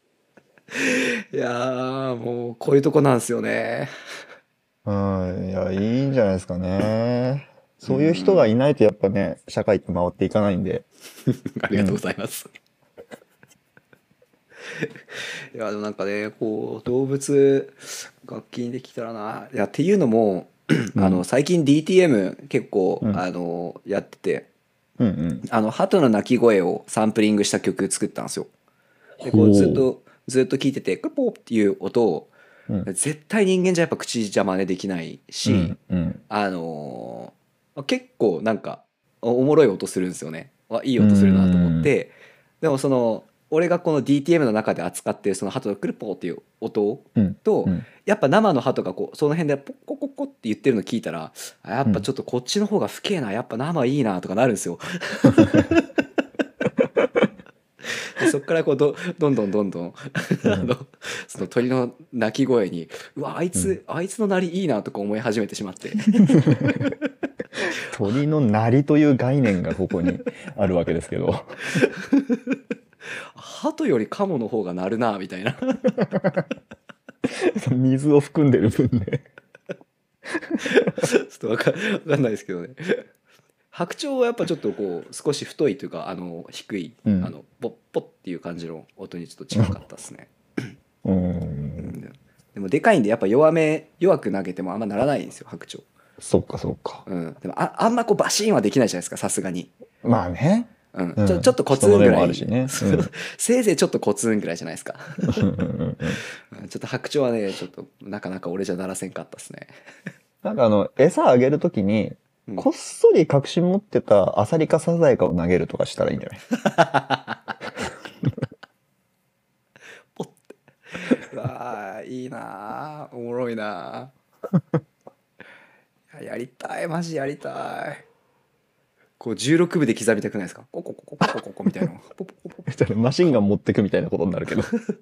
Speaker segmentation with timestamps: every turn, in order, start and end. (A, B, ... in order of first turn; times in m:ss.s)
0:00.7-0:03.9 A
0:04.8-0:10.8 B
0:07.8-0:08.5 A
0:11.3-0:12.5 A
0:11.7-0:12.0 B
0:15.5-0:24.5 A
0:21.0-0:21.2 B
0:25.0-0:25.4 B
0:25.4-0:28.5 A
0:29.2-0:29.8 B
0:29.2-0:32.3 A
0:32.8-0:35.8 A
0:35.4-0:36.2 B
0:36.3-0:55.9 A
0:41.0-0:41.9 B
0:47.2-0:47.8 B
0:55.4-0:55.7 B
0:58.0-1:06.4 A
1:00.4-1:00.7 B
1:06.2-1:06.9 B
1:07.8-1:11.6 B
1:11.8-1:12.5 A
1:13.3-1:15.9 A
1:15.9-1:16.4 B
1:17.3-1:19.2 B
1:20.4-1:20.7 B
1:20.6-1:23.1 A
1:23.7-1:30.3 A
1:27.0-1:27.3 B
1:31.0-1:31.9 B
1:31.8-1:35.8 A
1:36.2-1:37.0 B
1:37.0-1:39.7 A
1:40.0-1:43.1 B
1:40.9-1:45.5 A
1:45.3-1:46.2 B
1:46.5-1:49.7 A
1:50.4-1:56.4 B
1:56.6-1:57.5 A
2:00.1-2:04.1 A
2:06.1-2:08.0 A
2:09.2-2:12.6 A
2:12.6-2:14.7 B